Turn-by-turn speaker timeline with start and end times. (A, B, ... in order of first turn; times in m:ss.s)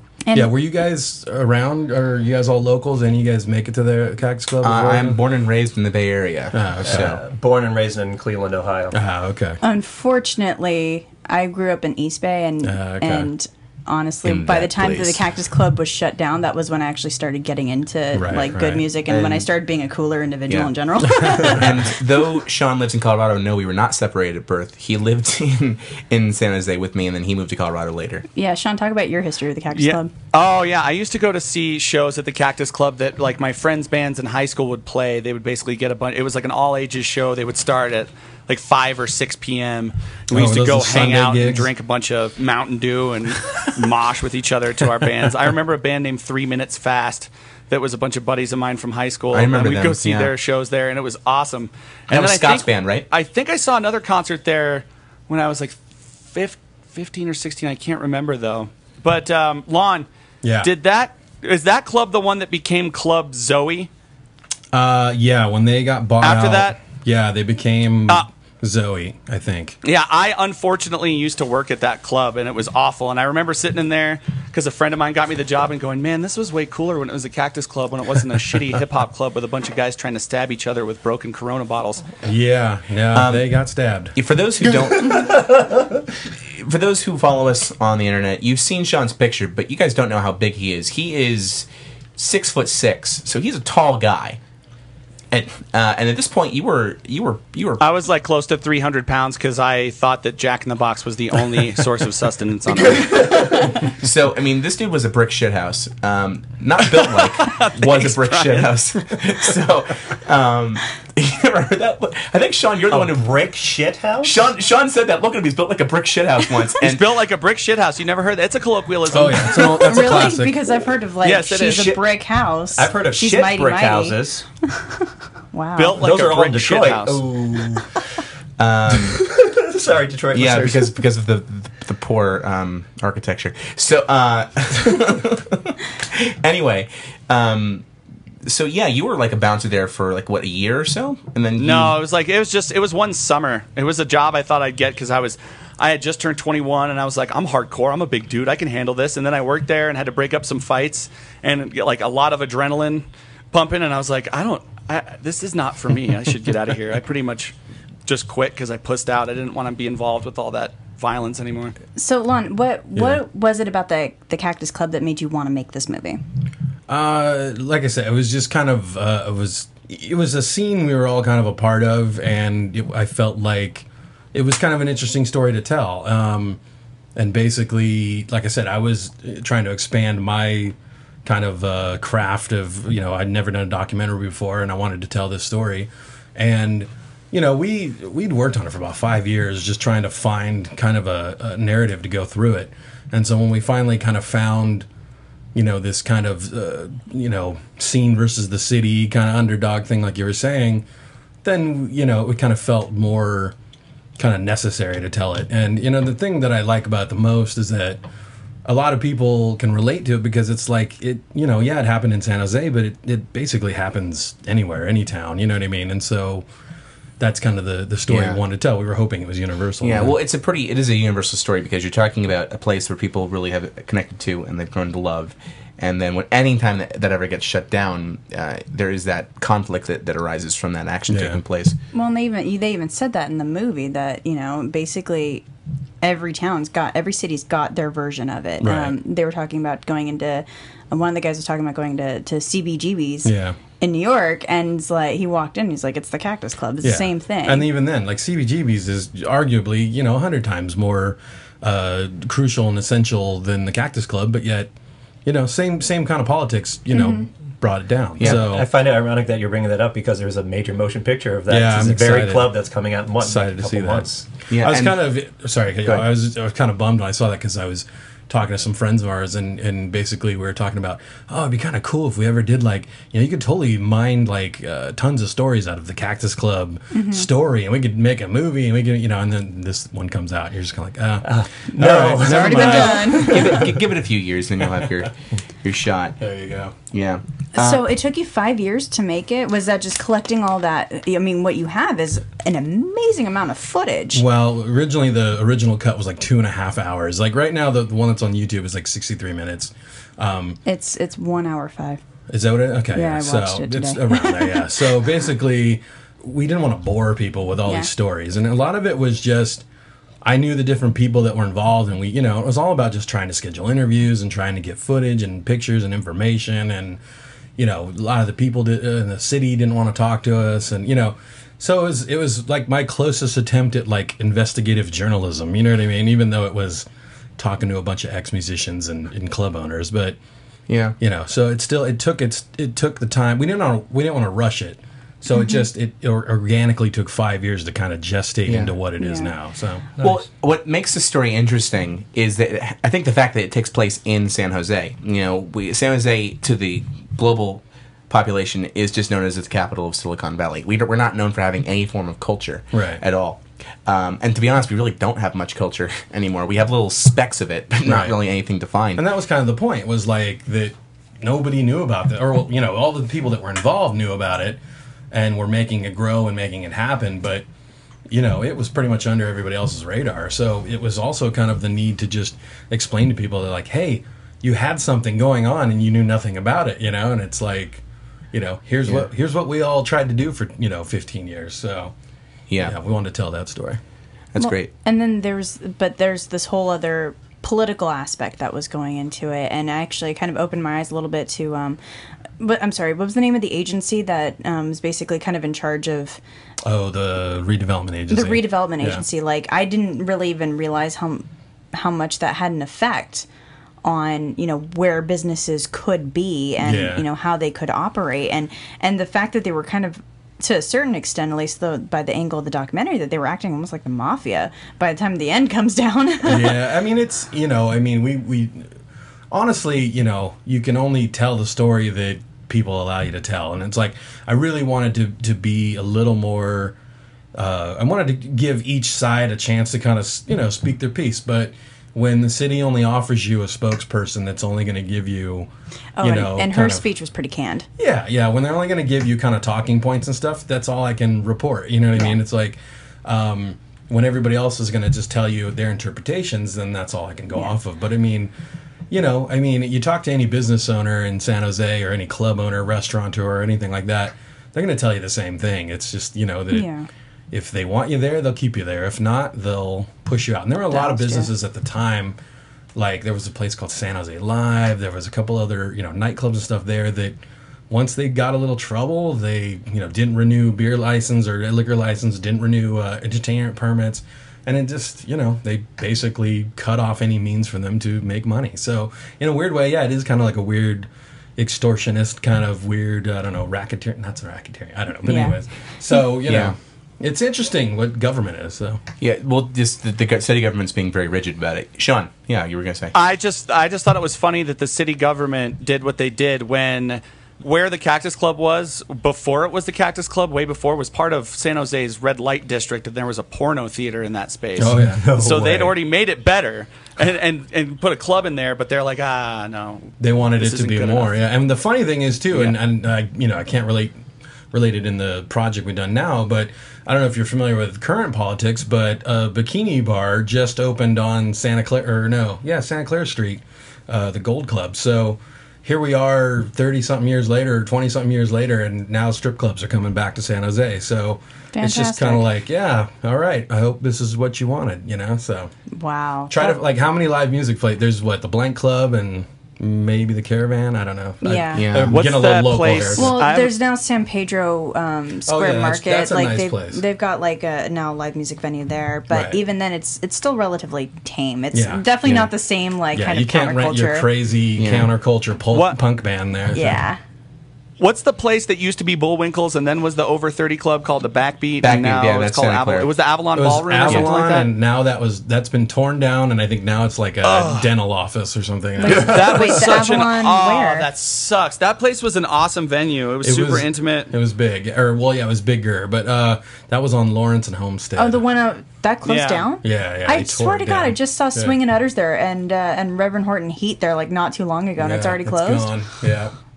0:00.2-0:00.5 A
0:00.3-0:05.2 B
0:04.6-0:07.2 C
0:06.5-0:07.1 B
0:06.8-0:09.0 D
0:08.9-0:09.6 B
0:09.6-0:21.7 A
0:12.6-0:13.3 B
0:14.2-0:15.2 C
0:18.1-0:18.9 B
0:19.1-0:19.5 C
0:20.5-0:28.2 C
0:28.3-0:30.1 A
0:29.7-1:00.1 E
0:40.3-0:41.7 B
0:49.3-0:50.3 C
0:52.1-0:53.0 C
1:00.4-1:00.7 B
1:00.6-1:03.9 E
1:04.7-1:09.8 B
1:06.2-1:06.8 E
1:09.8-1:22.0 E
1:22.2-1:24.1 B
1:23.1-1:23.4 C
1:24.1-1:25.7 C
1:26.5-1:34.4 C
1:35.3-1:37.8 C
1:37.8-1:43.5 E
1:43.1-1:53.4 C
1:46.8-1:48.8 E
1:52.9-1:54.5 D
1:54.2-1:57.1 C
1:56.8-1:59.8 E
1:59.1-2:00.6 B
1:59.7-2:04.2 A
2:01.2-2:02.0 E
2:01.6-2:02.0 D
2:02.7-2:04.4 D
2:05.5-2:06.0 A
2:05.8-2:07.2 E
2:06.0-2:08.0 D
2:08.6-2:09.2 C
2:08.9-2:11.0 D
2:10.3-2:17.8 C
2:18.4-2:21.9 C
2:21.6-2:37.5 E
2:38.1-2:41.7 E
2:42.0-2:46.2 A
2:43.0-2:43.2 B
2:46.9-2:56.6 B
2:57.2-3:14.8 B
3:15.5-3:20.8 B
3:21.4-3:23.5 B
3:24.2-3:28.0 B
3:28.6-3:36.4 B
3:37.2-3:40.2 B
3:38.1-3:38.4 C
3:39.8-3:51.7 C
3:51.1-3:51.4 B
3:51.9-3:55.4 A
3:56.0-4:07.7 A
3:58.6-3:59.0 B
4:03.2-4:03.6 B
4:06.8-4:14.7 B
4:15.2-4:18.6 B
4:16.9-4:17.2 A
4:18.2-4:18.6 C
4:18.2-4:24.2 D
4:21.5-4:22.5 B
4:23.2-4:43.6 B
4:24.5-4:25.0 C
4:36.9-4:37.3 A
4:41.2-4:43.6 D
4:42.1-4:43.4 A
4:42.5-4:45.1 C
4:45.6-4:46.2 C
4:46.2-4:46.7 B
4:46.9-4:47.8 C
4:47.5-4:54.2 A
4:54.1-5:00.6 B
5:00.6-5:02.0 A
5:02.3-5:09.6 B
5:02.9-5:04.7 A
5:10.2-5:17.0 B
5:17.6-5:26.8 B
5:27.4-5:30.2 B
5:30.7-5:31.0 C
5:31.0-5:39.9 B
5:35.3-5:35.6 A
5:38.5-5:38.7 C
5:39.0-5:39.3 A
5:40.0-5:59.0 C
5:52.7-5:53.0 B
5:57.8-5:58.2 B
5:59.0-6:07.4 B
6:08.1-6:17.8 B
6:18.3-6:21.9 B
6:22.5-6:22.7 C
6:22.6-6:23.8 B
6:24.3-6:24.7 C
6:24.4-6:31.8 A
6:32.4-6:36.2 A
6:36.6-6:39.0 B
6:38.1-6:43.2 A
6:43.8-6:56.6 A
6:46.6-6:47.0 B
6:56.2-6:58.7 B
6:59.3-7:06.8 B
7:07.3-7:15.5 B
7:16.0-7:17.6 A
7:16.0-7:16.8 B
7:17.8-7:28.3 B
7:28.9-7:36.7 B
7:36.5-7:36.9 A
7:37.3-7:42.2 B
7:40.7-7:41.3 A
7:42.7-7:47.2 B
7:47.7-8:08.8 B
8:05.0-8:05.3 A
8:06.2-8:06.6 C
8:09.0-8:12.9 C
8:12.9-8:31.1 E
8:24.6-8:25.2 B
8:24.7-8:25.7 D
8:30.0-8:34.0 B
8:34.5-8:55.5 B
8:51.5-8:52.3 A
8:55.7-8:56.6 A
8:56.3-9:03.1 B
9:01.2-9:01.7 A
9:01.5-9:02.0 C
9:01.9-9:03.5 E
9:02.9-9:14.1 A
9:05.2-9:06.8 B
9:09.1-9:09.4 B
9:11.5-9:12.3 B
9:12.9-9:16.8 B
9:14.6-9:14.9 C
9:15.5-9:15.8 E
9:16.5-9:17.0 A
9:17.8-9:24.5 E
9:21.6-9:22.9 C
9:23.3-9:29.8 B
9:23.8-9:24.1 C
9:27.2-9:27.7 E
9:28.8-9:30.9 A
9:28.8-9:34.1 E
9:33.2-9:38.2 B
9:38.0-9:45.7 A
9:39.0-9:39.5 E
9:39.6-9:41.6 B
9:44.8-9:46.3 B